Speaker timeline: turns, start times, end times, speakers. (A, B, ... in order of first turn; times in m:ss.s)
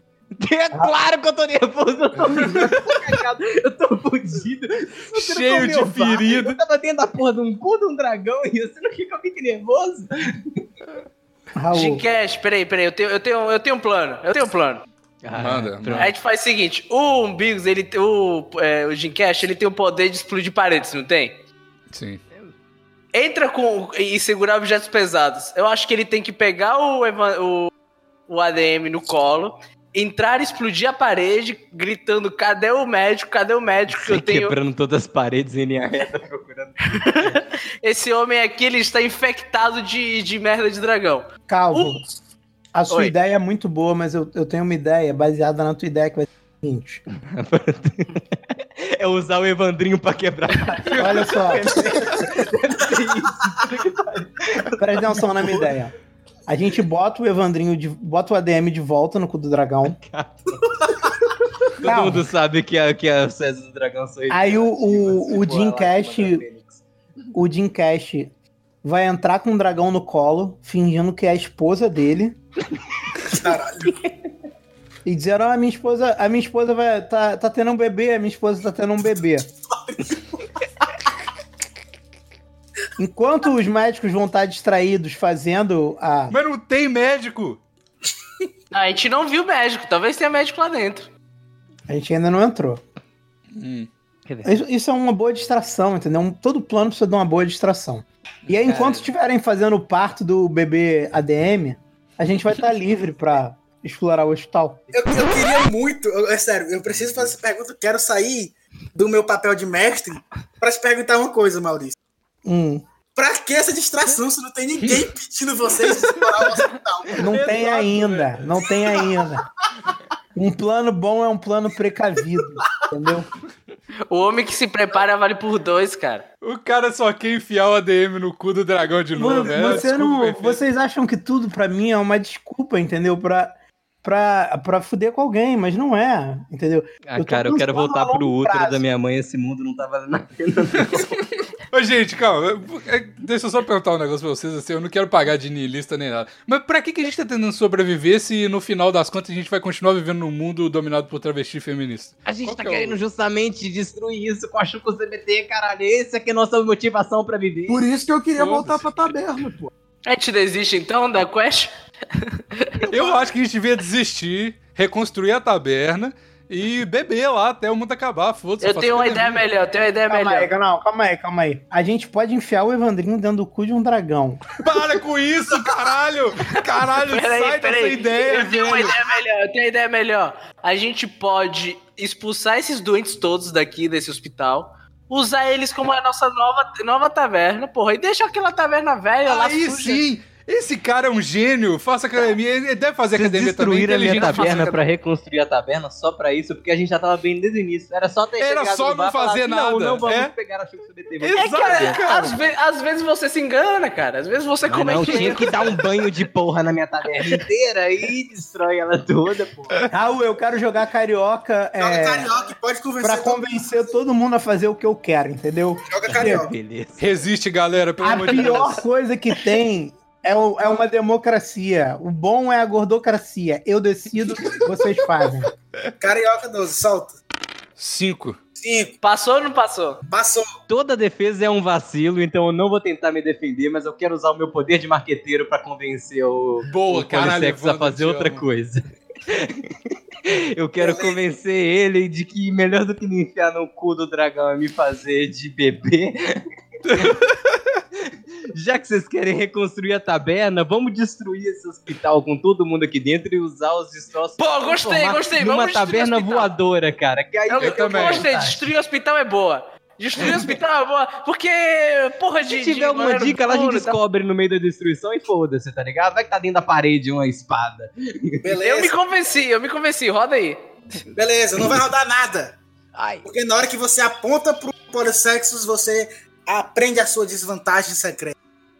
0:00.4-0:10.6 A
0:02.3-0:02.7 B
0:05.1-0:06.6 B
0:11.5-0:12.0 C
0:11.7-0:14.8 D
0:15.2-0:16.1 A
0:15.3-0:16.1 B
0:16.0-0:21.4 D
0:21.9-0:22.2 B
0:23.1-0:27.7 D
0:28.3-0:34.5 D
0:33.9-0:37.4 A
0:36.8-0:42.0 D
0:41.5-0:42.0 C
0:42.7-0:47.0 C
0:42.9-0:43.1 D
0:47.3-0:55.7 A
0:50.9-0:52.1 C
0:54.8-0:55.9 C
0:56.5-1:00.0 C
0:59.8-1:01.1 A
1:01.8-1:06.8 A
1:01.8-1:02.3 C
1:04.3-1:06.4 C
1:07.3-1:08.3 C
1:08.8-1:12.4 C
1:13.2-1:14.0 E
1:15.0-1:19.5 C
1:19.7-1:20.4 E
1:23.0-1:26.4 C
1:26.3-1:27.6 B
1:28.7-1:31.1 D
1:31.9-1:32.8 C
1:33.5-1:33.9 B
1:34.3-1:34.6 A
1:34.4-1:44.9 C
1:38.7-1:39.1 A
1:44.9-1:52.0 E
1:52.4-1:52.8 C
1:53.2-1:57.5 E
1:57.2-1:59.4 C
1:57.3-1:58.0 A
2:00.3-2:03.3 C
2:04.1-2:06.2 D
2:06.4-2:10.6 B
2:09.1-2:18.8 C
2:17.1-2:21.2 A
2:21.7-2:33.0 B
2:32.2-2:37.8 A
2:37.7-2:39.7 F
2:38.4-2:38.8 B
2:40.0-2:43.2 D
2:42.9-2:49.4 B
2:48.6-2:50.5 D
2:50.1-2:54.5 C
2:54.6-2:59.0 B
2:57.0-3:10.0 D
3:09.2-3:14.6 B
3:13.1-3:22.0 A
3:14.1-3:14.8 D
3:18.4-3:20.3 B
3:21.2-3:22.4 B
3:21.3-3:25.8 D
3:24.6-3:29.8 A
3:29.9-3:32.3 C
3:31.8-3:33.4 E
3:33.0-3:36.5 C
3:35.9-3:36.5 E
3:36.1-3:37.0 A
3:37.0-3:38.8 B
3:38.0-3:45.5 C
3:46.0-3:47.2 E
3:47.8-3:48.4 B
3:48.6-3:49.0 E
3:49.0-3:50.0 D
3:50.1-3:50.5 E
3:50.7-4:07.2 A
3:56.7-3:58.4 B
4:00.8-4:01.2 E
4:06.8-4:07.4 B
4:08.5-4:18.6 A
4:14.4-4:16.5 D
4:17.5-4:24.0 D
4:17.6-4:18.2 B
4:20.2-4:20.6 A
4:22.5-4:28.4 A
4:28.4-4:28.9 E
4:28.6-4:30.7 D
4:31.1-4:32.6 E
4:33.2-4:38.3 E